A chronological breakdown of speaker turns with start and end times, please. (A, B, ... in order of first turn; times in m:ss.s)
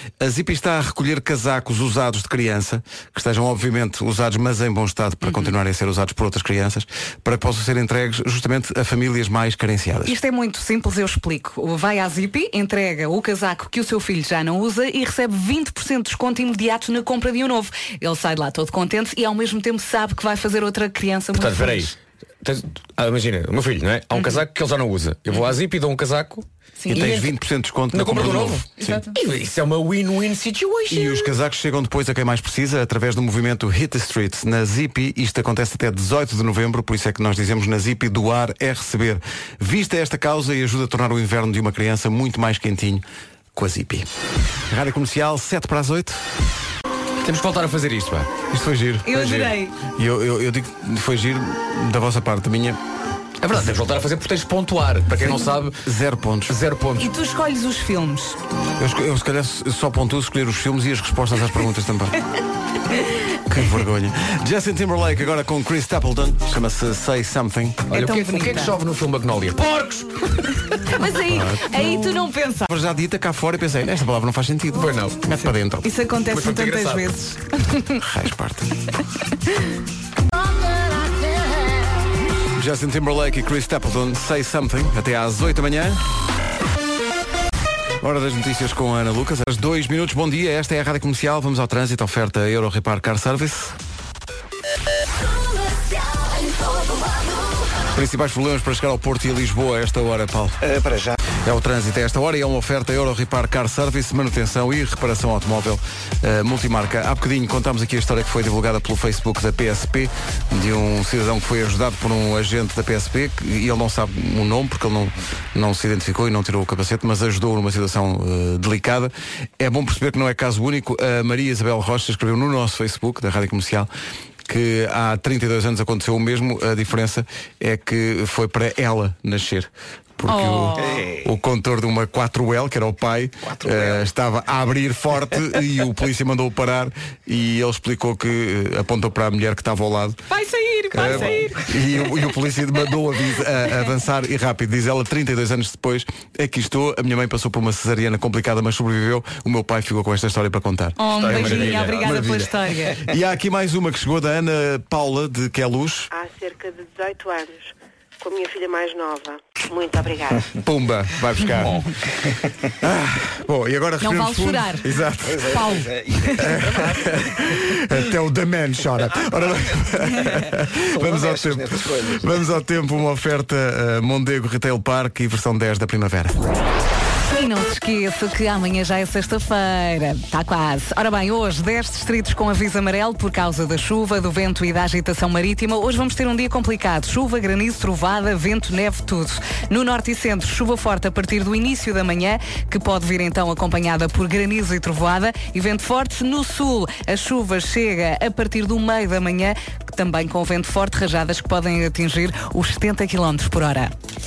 0:00.2-0:10.2 A
0:10.0-0:21.9 B
0:21.4-0:27.3 C
0:26.8-0:27.1 B
0:26.9-0:29.0 A
0:27.9-0:31.3 C
0:28.8-0:29.1 B
0:30.9-0:44.1 A
0:44.7-0:46.2 A
0:47.2-0:48.3 C
0:48.5-0:52.8 A
0:49.0-0:49.8 B
0:53.4-0:55.8 C
0:55.8-0:56.6 A
0:56.5-0:57.1 C
0:57.0-0:58.4 B
0:58.8-1:02.2 A
1:03.5-1:07.9 A
1:07.9-1:08.8 B
1:07.9-1:10.4 C
1:10.9-1:12.7 B
1:11.3-1:11.8 A
1:12.7-1:15.9 A
1:14.7-1:15.2 C
1:15.8-1:18.0 B
1:16.3-1:17.1 C
1:18.0-1:18.8 A
1:22.5-1:26.0 A
1:28.0-1:33.8 A
1:37.9-1:40.6 A
1:40.6-1:41.2 D
1:41.4-2:03.9 A
2:04.5-2:20.2 A
2:10.3-2:11.0 B
2:10.9-2:11.2 D
2:13.6-2:14.0 D
2:20.3-2:21.7 B
2:20.9-2:36.1 A
2:31.0-2:33.0 B
2:31.2-2:32.2 C
2:36.1-2:40.5 E
2:40.5-2:41.9 A
2:42.8-2:56.4 A
2:44.0-2:44.9 B
2:45.2-2:46.9 D
2:45.4-2:45.9 B
2:50.8-2:52.3 D
2:57.3-3:23.9 B